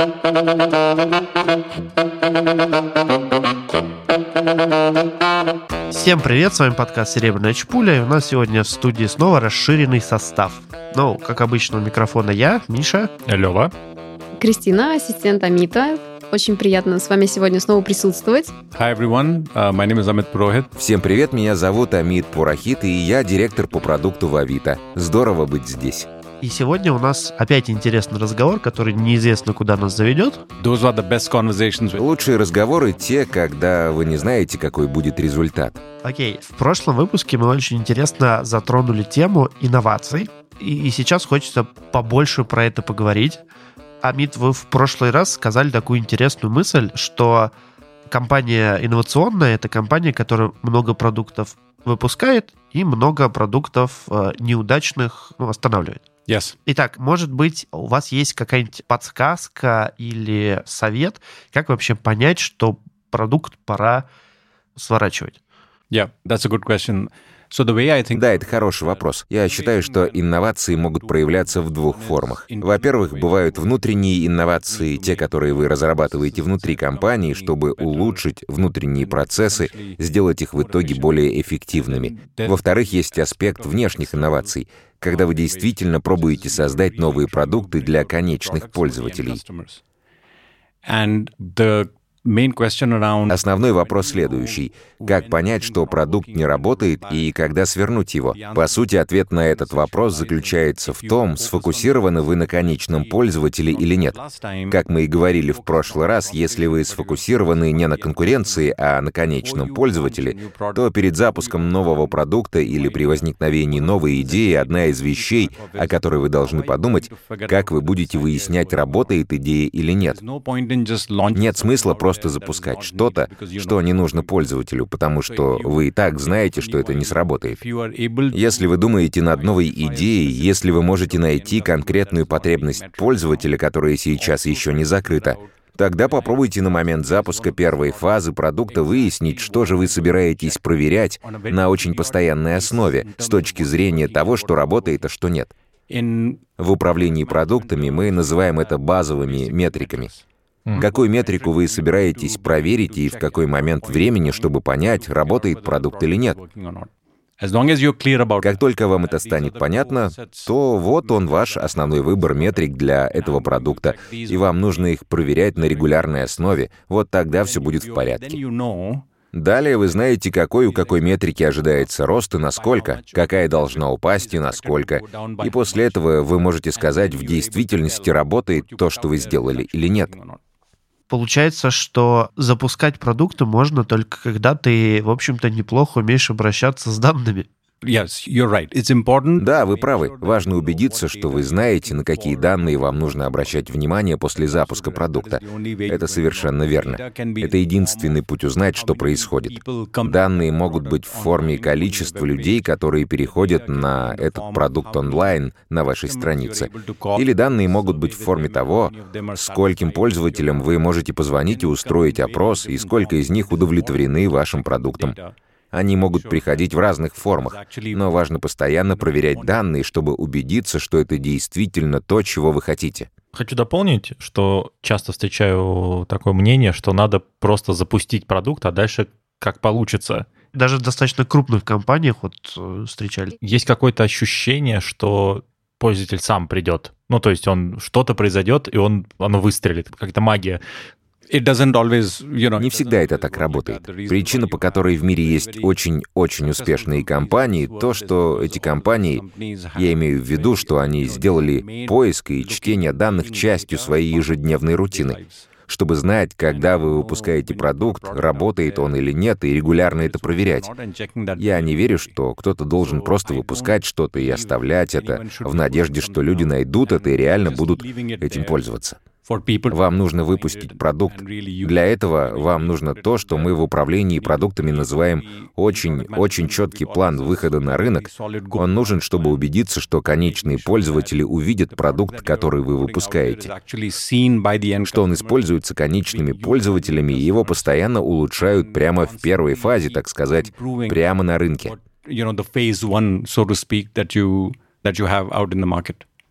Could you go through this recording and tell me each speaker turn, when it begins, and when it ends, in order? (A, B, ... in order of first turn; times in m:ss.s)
0:05.9-0:13.1 A
0:13.3-0:13.7 B
0:14.4-0:18.5 C
0:18.7-0:20.7 D
0:20.7-0:26.1 E
0:26.4-0:30.4 A
0:30.6-0:32.0 D
0:32.0-0:35.8 E
0:36.0-0:43.4 A
0:44.0-0:47.5 A
0:48.1-0:56.0 A
0:56.3-0:56.6 D
0:56.6-1:04.1 A
1:04.8-1:05.4 A
1:05.9-1:18.3 D
1:08.1-1:29.4 E
1:18.9-1:20.0 D
1:20.5-1:29.8 D
1:30.8-1:37.4 D
1:33.3-1:44.2 E
1:38.3-1:48.8 D
1:44.7-2:00.2 E
1:49.4-1:59.2 D
2:00.1-2:04.4 D
2:01.3-2:07.6 E
2:05.2-2:13.5 D
2:08.3-2:25.5 E
2:14.1-2:20.6 D
2:21.2-2:25.1 D
2:25.9-2:30.2 D
2:26.6-2:30.1 E
2:30.8-2:36.4 E
2:30.8-2:46.3 D
2:38.4-2:48.4 E
2:47.4-2:49.0 D
2:49.3-3:00.1 E
2:50.6-3:00.4 D
3:01.1-3:07.5 A
3:07.8-3:13.7 D
3:09.4-3:35.2 E
3:14.3-3:38.2 D
3:35.7-3:43.1 E
3:38.8-3:39.6 D
3:43.3-3:50.2 B
3:50.5-3:53.4 A
3:53.4-4:00.6 B
4:01.3-4:05.8 D
4:02.6-4:09.2 E
4:06.4-4:15.5 D
4:09.8-4:20.7 E
4:16.4-4:19.0 D
4:19.6-4:22.1 D
4:21.4-4:29.0 E
4:22.7-4:28.6 D
4:29.2-4:39.5 D
4:29.7-4:43.5 E
4:40.2-4:56.0 D
4:44.8-4:51.7 E